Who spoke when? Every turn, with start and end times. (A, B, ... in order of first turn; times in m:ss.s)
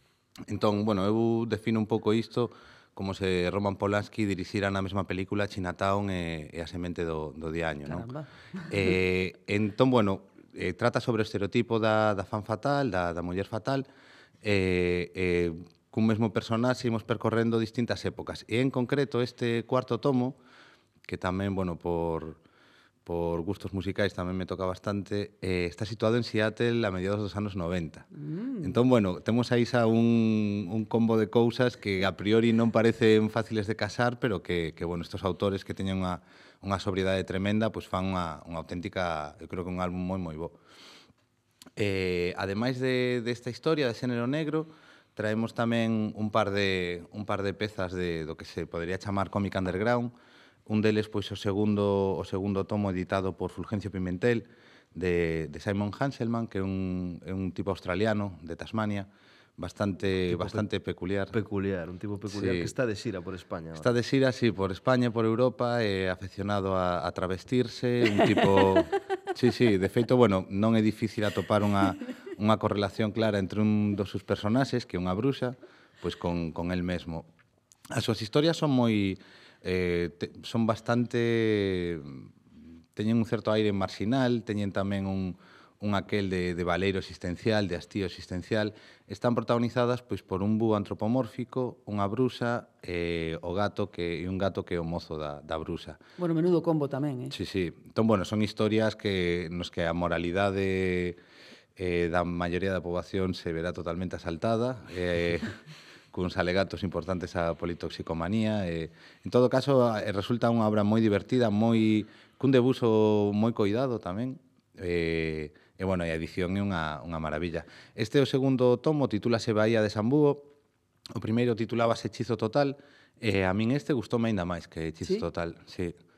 0:00.5-0:08.1 A
0:07.8-0:08.3 B
0:08.7-0:13.8 A
0:14.4-0:20.4 A
0:21.0-0:22.4 A
0:23.0-0:28.1 A
0:28.1-0:28.8 B
0:28.6-0:40.5 A
0:41.8-0:50.1 A
0:50.7-1:01.3 A
1:00.3-1:00.6 C
1:01.3-1:03.9 C
1:02.3-1:02.7 A
1:03.7-1:17.3 A
1:17.9-1:22.2 A
1:23.0-1:36.0 A
1:36.2-1:37.3 B
1:37.3-1:41.2 A
1:41.8-1:45.5 A
1:46.1-2:00.5 A
2:01.1-2:06.0 A